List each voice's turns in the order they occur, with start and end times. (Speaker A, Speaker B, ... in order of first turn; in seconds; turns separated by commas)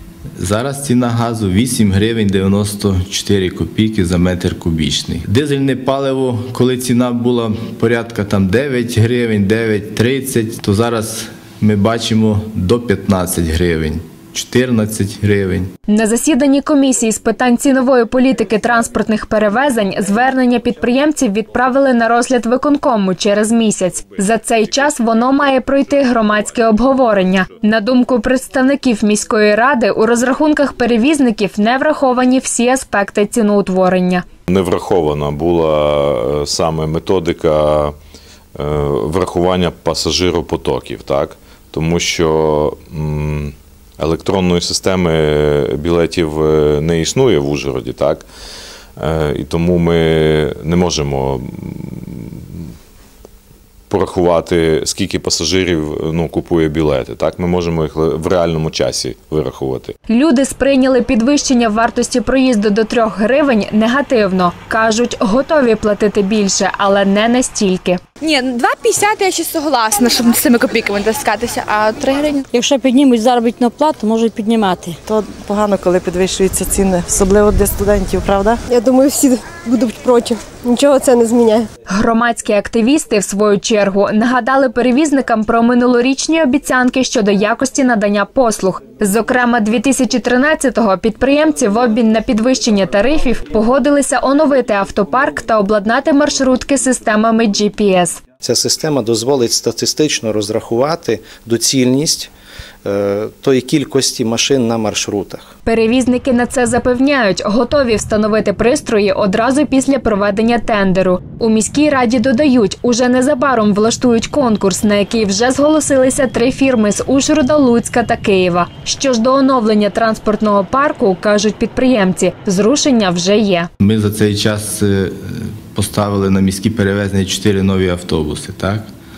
Speaker A: 0.4-15.7, Speaker B: 15.9-34.2, Speaker C: 34.5-38.0, Speaker C: 38.6-48.3, Speaker C: 49.0-52.6, Speaker C: 53.9-60.0, Speaker B: 60.1-68.0, Speaker D: 68.2-72.5, Speaker E: 72.5-75.0, Speaker F: 75.1-78.6, Speaker G: 78.7-81.7, Speaker B: 81.9-98.2, Speaker H: 98.4-102.3, Speaker H: 102.8-105.5, Speaker B: 105.7-123.7, Speaker A: 123.8-128.9